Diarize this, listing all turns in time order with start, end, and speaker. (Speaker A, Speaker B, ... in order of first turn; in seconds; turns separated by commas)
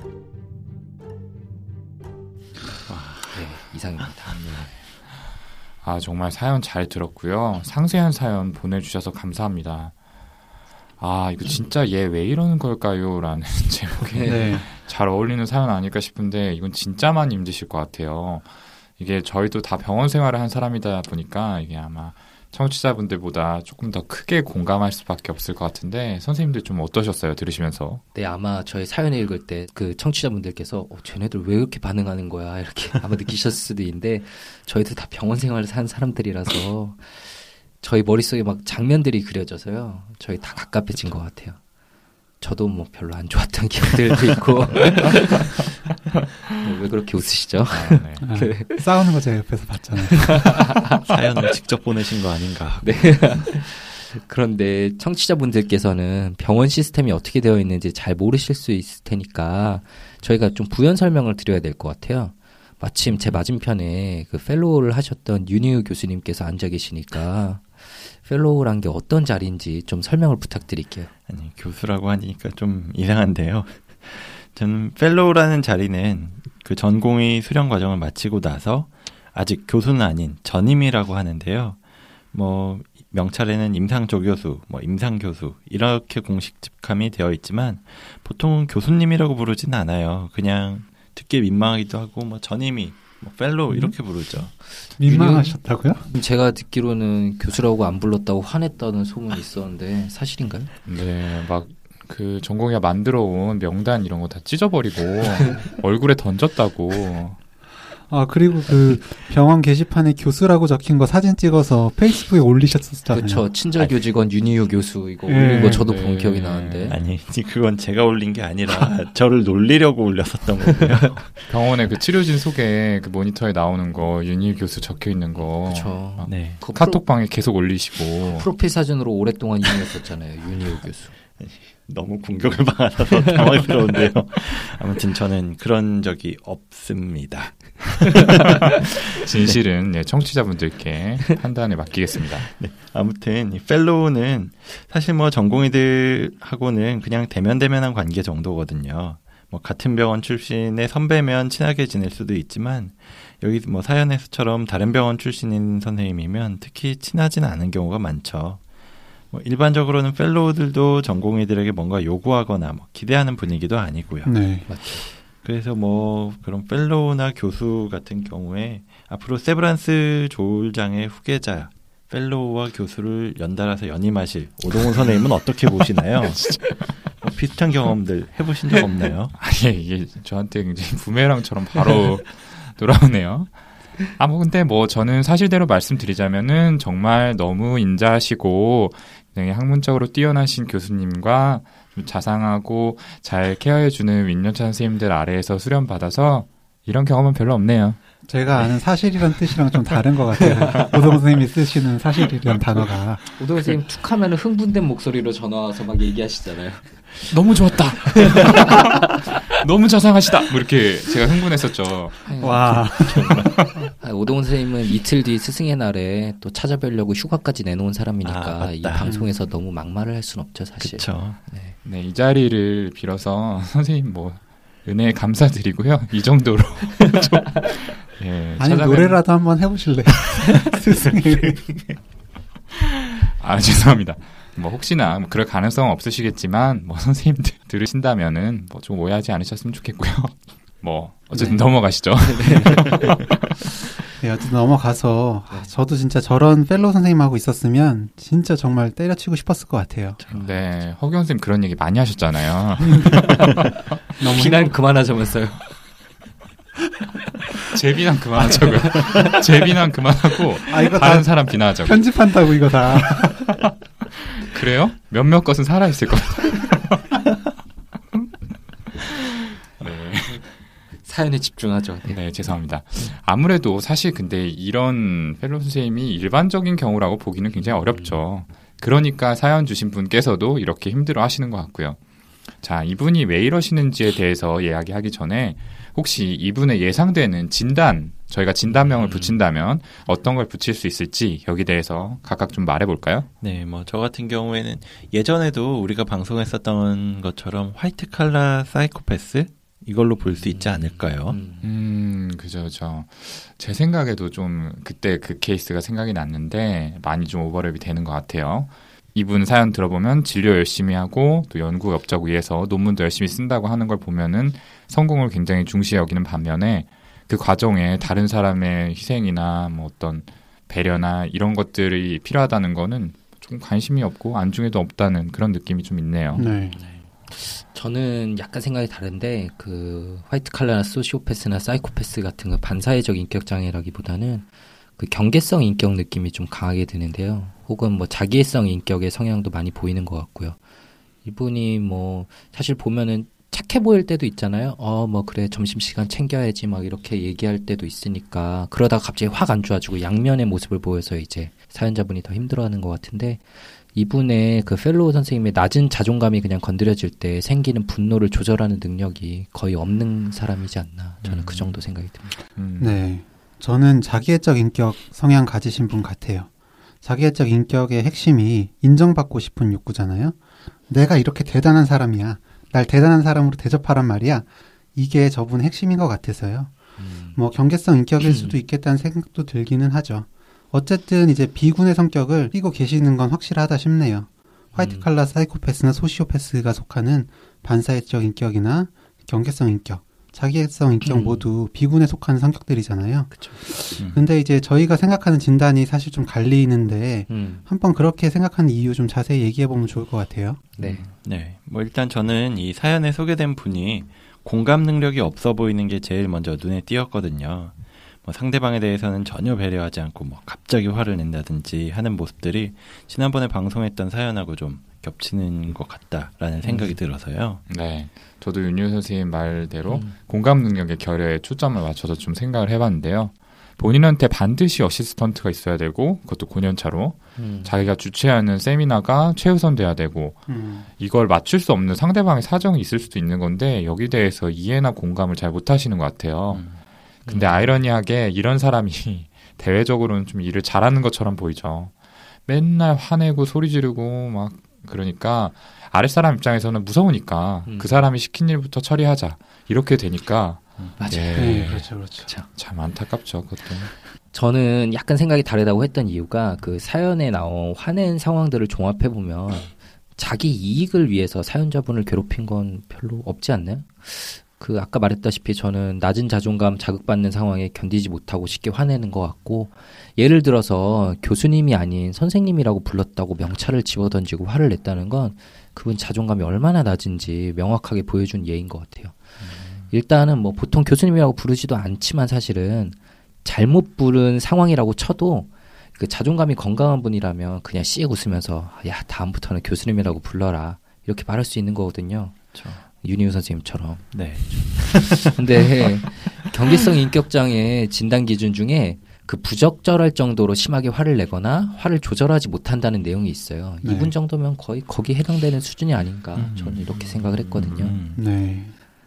Speaker A: 2.9-3.4, Speaker B: 3.3-4.5, Speaker C: 4.4-4.7, Speaker C: 5.8-9.9, Speaker C: 11.0-28.0, Speaker B: 14.0-14.6, Speaker D: 14.3-14.7, Speaker B: 28.1-41.6, Speaker B: 42.4-45.6, Speaker B: 46.6-48.8, Speaker C: 47.7-48.2, Speaker D: 48.2-50.5, Speaker B: 50.2-51.0, Speaker A: 51.0-53.2, Speaker B: 52.8-71.1, Speaker A: 71.3-81.8, Speaker A: 82.3-94.5, Speaker D: 95.0-96.0, Speaker B: 95.0-100.7, Speaker C: 100.8-107.4, Speaker D: 108.1-113.5, Speaker B: 113.1-116.9, Speaker D: 115.3-115.9, Speaker C: 115.7-117.0, Speaker A: 116.9-121.5, Speaker C: 121.5-128.5, Speaker B: 125.6-127.0, Speaker A: 126.3-126.6, Speaker B: 128.2-131.1, Speaker A: 131.4-139.6, Speaker C: 139.1-142.5, Speaker A: 142.4-158.6, Speaker A: 159.3-164.3, Speaker D: 164.2-164.7, Speaker B: 164.7-165.1, Speaker A: 165.0-176.7, Speaker C: 176.2-176.9, Speaker A: 177.2-179.3, Speaker C: 179.4-198.0, Speaker D: 198.3-203.3, Speaker B: 203.3-207.3, Speaker C: 207.3-213.8, Speaker B: 208.2-208.9, Speaker B: 212.2-221.7, Speaker D: 212.4-213.4, Speaker A: 218.2-219.1, Speaker D: 219.0-219.3, Speaker A: 220.8-221.4, Speaker C: 221.8-229.2, Speaker D: 228.6-231.9, Speaker C: 233.2-243.5, Speaker B: 241.3-241.6, Speaker B: 242.2-243.3, Speaker D: 244.2-250.2, Speaker C: 250.3-253.7, Speaker D: 252.8-253.2, Speaker D: 254.2-254.7, Speaker B: 254.2-255.7, Speaker C: 257.7-267.2, Speaker B: 258.6-259.3, Speaker D: 260.7-263.6, Speaker C: 269.8-270.5, Speaker B: 271.0-272.1, Speaker C: 272.1-282.0, Speaker B: 277.6-278.2, Speaker C: 282.6-293.3, Speaker B: 289.0-289.3, Speaker A: 293.4-301.4, Speaker B: 301.2-301.6, Speaker C: 301.6-326.4, Speaker D: 326.3-326.8, Speaker B: 326.3-334.5, Speaker B: 335.0-340.6, Speaker B: 341.2-362.3, Speaker A: 361.2-361.6, Speaker C: 362.6-363.0, Speaker D: 362.8-366.5, Speaker D: 367.0-370.4, Speaker D: 370.9-376.7, Speaker B: 377.0-377.4, Speaker D: 377.3-400.6, Speaker B: 378.2-378.6, Speaker B: 384.7-385.1, Speaker B: 391.0-391.5, Speaker B: 393.3-393.6, Speaker B: 397.3-397.6, Speaker B: 400.8-401.1, Speaker A: 400.8-417.6, Speaker B: 416.6-416.9, Speaker C: 417.7-441.9, Speaker B: 419.9-420.1, Speaker B: 427.4-427.8, Speaker D: 430.5-430.8, Speaker A: 436.5-436.8, Speaker B: 437.2-437.7, Speaker C: 442.4-451.9, Speaker B: 447.6-448.1, Speaker B: 451.0-452.5, Speaker D: 451.3-452.3, Speaker C: 452.4-453.9, Speaker B: 454.3-479.2, Speaker A: 479.4-479.9, Speaker B: 479.9-508.0, Speaker A: 492.5-492.8, Speaker A: 494.1-495.9, Speaker D: 503.8-504.1, Speaker A: 506.3-508.2, Speaker D: 508.1-508.7